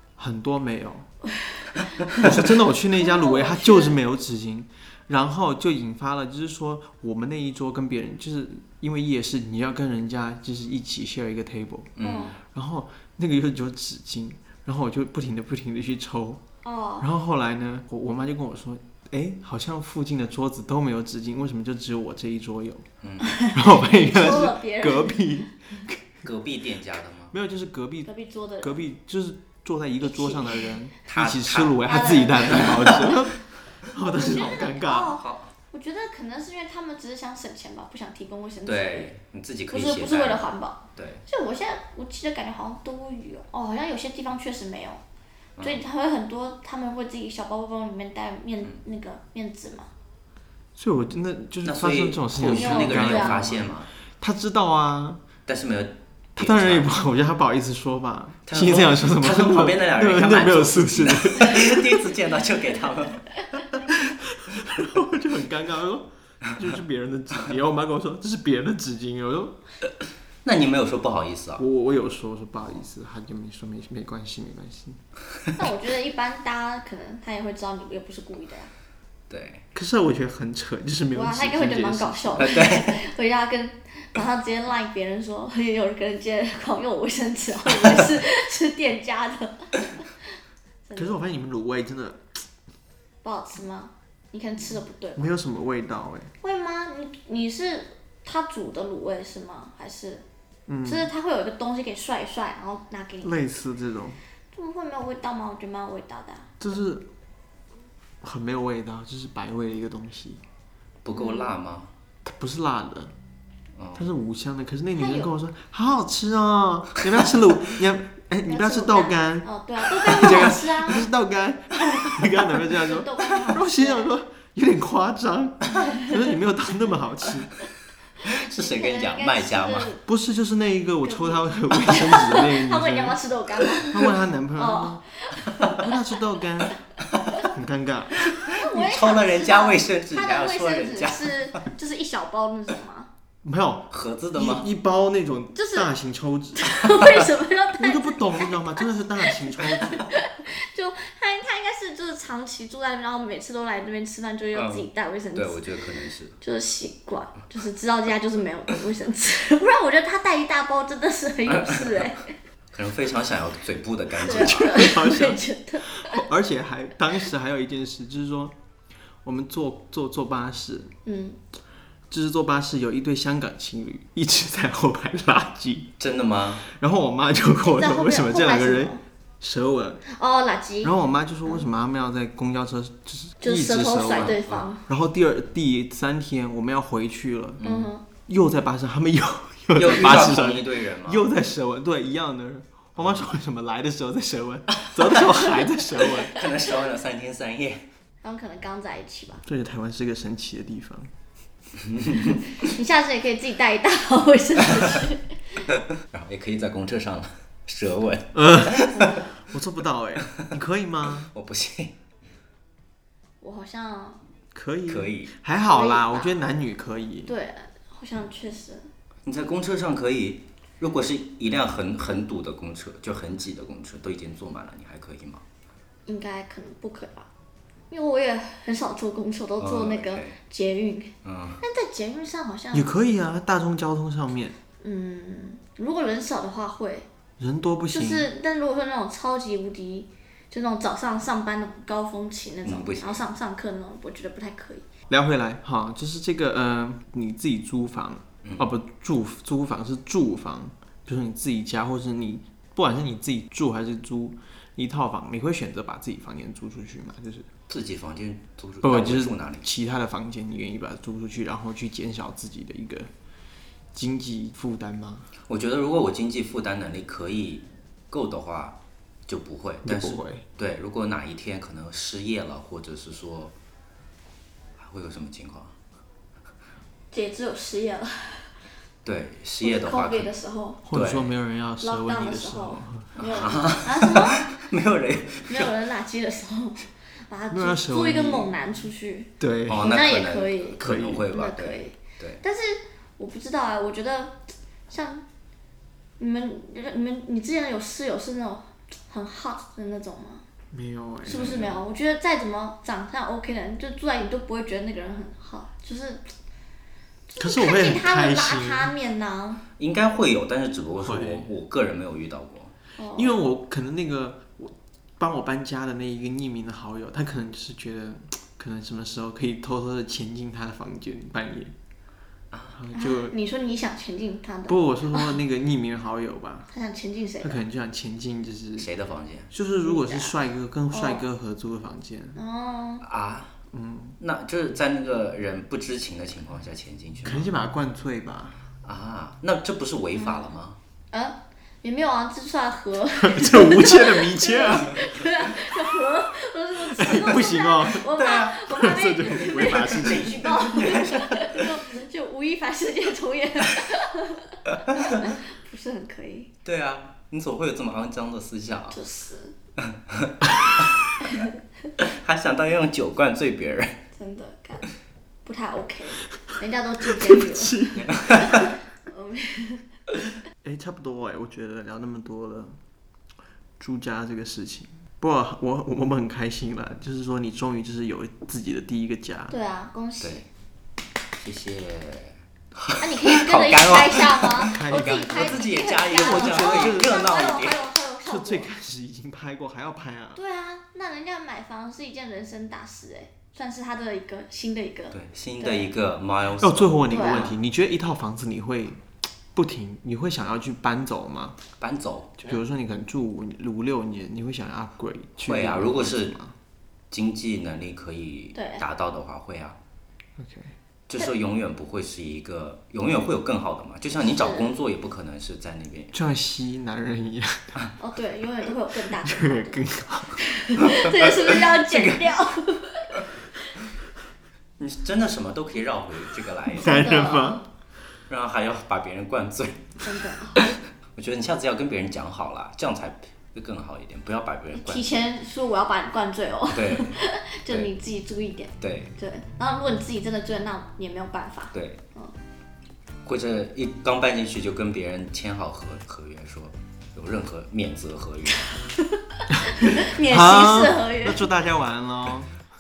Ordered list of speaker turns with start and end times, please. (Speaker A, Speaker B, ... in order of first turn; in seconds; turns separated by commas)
Speaker A: 0.2-1.1, Speaker B: 1.4-1.6, Speaker A: 2.2-16.4, Speaker B: 3.0-4.0, Speaker C: 12.0-12.3, Speaker B: 12.0-12.4, Speaker B: 16.6-17.1, Speaker A: 17.0-22.9, Speaker C: 23.0-23.4, Speaker B: 23.2-25.2, Speaker A: 23.5-26.3, Speaker C: 26.2-27.3, Speaker A: 27.3-35.1, Speaker B: 28.1-28.8, Speaker B: 30.0-30.7, Speaker C: 31.1-31.9, Speaker B: 31.9-33.1, Speaker C: 32.5-33.1, Speaker B: 34.0-39.1, Speaker C: 35.1-35.5, Speaker C: 38.7-41.2, Speaker B: 39.7-45.0, Speaker C: 45.6-45.8, Speaker B: 45.6-49.9, Speaker A: 50.8-55.2, Speaker C: 51.6-53.9, Speaker B: 52.5-53.5, Speaker C: 55.5-56.9, Speaker A: 56.4-62.1, Speaker C: 58.5-63.2, Speaker A: 63.5-69.6, Speaker C: 70.5-71.7, Speaker A: 71.6-75.0, Speaker B: 75.6-78.7, Speaker C: 79.3-79.7, Speaker A: 79.7-82.8, Speaker B: 81.1-90.1, Speaker C: 82.4-83.0, Speaker B: 90.8-91.2, Speaker A: 91.0-92.2, Speaker B: 93.2-95.3, Speaker A: 95.2-96.3, Speaker B: 96.4-100.2, Speaker A: 100.7-101.1, Speaker B: 100.8-103.4, Speaker A: 103.2-104.2, Speaker B: 104.5-106.5, Speaker A: 106.6-107.1, Speaker A: 108.2-110.4, Speaker C: 111.0-111.9, Speaker B: 111.2-111.5, Speaker A: 112.2-113.1, Speaker C: 113.8-114.1, Speaker A: 114.0-127.5, Speaker B: 115.0-115.3, Speaker B: 118.5-121.0, Speaker B: 122.5-124.1, Speaker C: 128.2-129.9, Speaker B: 128.2-130.0, Speaker A: 130.1-133.2, Speaker B: 131.0-135.9, Speaker A: 133.9-135.0, Speaker A: 135.6-136.7, Speaker A: 137.4-138.3, Speaker B: 138.2-143.1, Speaker C: 138.3-141.5, Speaker A: 143.4-146.9, Speaker C: 143.9-144.7, Speaker B: 145.6-145.9, Speaker B: 146.6-155.7, Speaker A: 147.8-150.0, Speaker C: 154.5-156.4, Speaker B: 156.4-162.3, Speaker C: 161.5-162.1, Speaker C: 162.7-164.9, Speaker B: 164.2-166.2, Speaker A: 164.3-168.6, Speaker A: 169.2-170.9, Speaker B: 171.1-171.4, Speaker A: 172.1-175.9, Speaker C: 176.0-176.7, Speaker A: 176.7-180.0, Speaker B: 177.7-179.0, Speaker B: 180.1-180.9, Speaker A: 180.8-187.6, Speaker B: 183.4-184.8, Speaker C: 184.1-184.6, Speaker C: 187.6-187.9, Speaker B: 187.6-188.0, Speaker A: 188.3-196.4, Speaker C: 189.8-191.2, Speaker C: 193.0-193.3, Speaker C: 194.8-197.8, Speaker B: 198.2-199.4, Speaker A: 199.5-201.1, Speaker C: 201.8-202.4, Speaker B: 202.5-205.3, Speaker C: 206.1-209.2, Speaker A: 208.3-211.3, Speaker B: 208.9-209.2, Speaker C: 211.3-211.9, Speaker B: 213.4-214.2, Speaker A: 214.5-217.3, Speaker C: 214.9-215.3, Speaker B: 215.7-216.4, Speaker B: 217.3-218.9, Speaker C: 219.3-225.4, Speaker B: 226.1-227.3, Speaker B: 227.9-232.9, Speaker C: 229.6-230.4, Speaker C: 231.2-231.6, Speaker A: 232.7-234.6, Speaker B: 234.8-237.1, Speaker A: 237.4-238.3, Speaker B: 237.9-244.8, Speaker C: 242.6-243.2, Speaker A: 245.1-257.5, Speaker C: 248.4-248.7, Speaker C: 257.7-259.7, Speaker A: 258.8-263.1, Speaker A: 263.9-265.3, Speaker C: 265.5-268.8, Speaker C: 269.3-273.6, Speaker A: 269.9-270.5, Speaker C: 274.8-275.8, Speaker B: 277.1-278.6, Speaker C: 279.1-280.3, Speaker B: 279.6-280.8, Speaker A: 280.9-283.2, Speaker C: 280.9-281.3, Speaker B: 281.8-284.5, Speaker C: 283.2-285.7, Speaker B: 285.5-295.2, Speaker A: 287.5-288.6, Speaker A: 289.4-289.9, Speaker C: 289.7-292.4, Speaker A: 290.8-291.3, Speaker B: 296.2-300.4, Speaker A: 300.7-301.7, Speaker B: 301.2-306.3, Speaker C: 301.3-301.8, Speaker B: 307.3-309.6, Speaker A: 307.4-308.9, Speaker C: 309.8-312.7, Speaker A: 311.0-311.5, Speaker B: 313.0-313.4, Speaker A: 313.2-321.7, Speaker C: 322.5-322.8, Speaker A: 322.7-323.4, Speaker B: 322.9-325.4, Speaker A: 324.7-326.7, Speaker B: 326.7-327.6, Speaker A: 327.4-328.9, Speaker C: 328.8-329.5, Speaker A: 329.5-332.4, Speaker B: 329.8-330.3, Speaker B: 330.9-331.2, Speaker B: 332.4-333.0, Speaker C: 333.0-333.6, Speaker A: 333.7-334.2, Speaker C: 334.2-337.6, Speaker A: 337.2-338.6, Speaker C: 338.8-340.8, Speaker B: 340.2-340.4, Speaker B: 341.1-356.5, Speaker A: 343.2-345.0, Speaker A: 346.9-348.1, Speaker C: 348.0-348.7, Speaker A: 348.7-350.9, Speaker C: 349.8-351.8, Speaker C: 354.9-355.3, Speaker C: 356.6-359.0, Speaker B: 358.9-359.6, Speaker C: 359.9-361.1, Speaker B: 361.2-361.5, Speaker C: 362.0-364.0, Speaker B: 364.1-364.9, Speaker B: 365.4-369.9, Speaker A: 367.1-368.1, Speaker C: 367.9-368.7, Speaker A: 370.6-372.8, Speaker A: 373.8-379.6, Speaker B: 379.5-380.4, Speaker C: 380.2-380.5, Speaker C: 381.4-387.8, Speaker B: 383.0-388.7, Speaker A: 384.7-385.6, Speaker A: 386.2-387.2, Speaker A: 388.3-390.4, Speaker B: 390.4-395.9, Speaker C: 395.1-397.6, Speaker A: 396.6-399.0, Speaker B: 397.1-397.5, Speaker A: 399.5-401.6, Speaker C: 401.8-402.5, Speaker A: 402.4-406.6, Speaker C: 405.4-406.4, Speaker C: 407.1-409.8, Speaker B: 408.6-408.8, Speaker A: 410.4-410.7, Speaker C: 411.1-416.1, Speaker B: 414.3-414.7, Speaker A: 416.1-417.7, Speaker B: 418.0-419.8, Speaker A: 419.2-420.4, Speaker B: 420.4-423.2, Speaker C: 421.7-422.3, Speaker C: 424.8-427.0, Speaker A: 426.7-427.6, Speaker B: 426.8-427.6, Speaker C: 428.3-435.3, Speaker B: 430.0-430.8, Speaker B: 434.8-442.3, Speaker C: 436.7-437.2, Speaker C: 438.8-439.1, Speaker C: 441.7-442.0, Speaker C: 443.3-448.7, Speaker B: 448.9-451.4, Speaker A: 449.9-452.5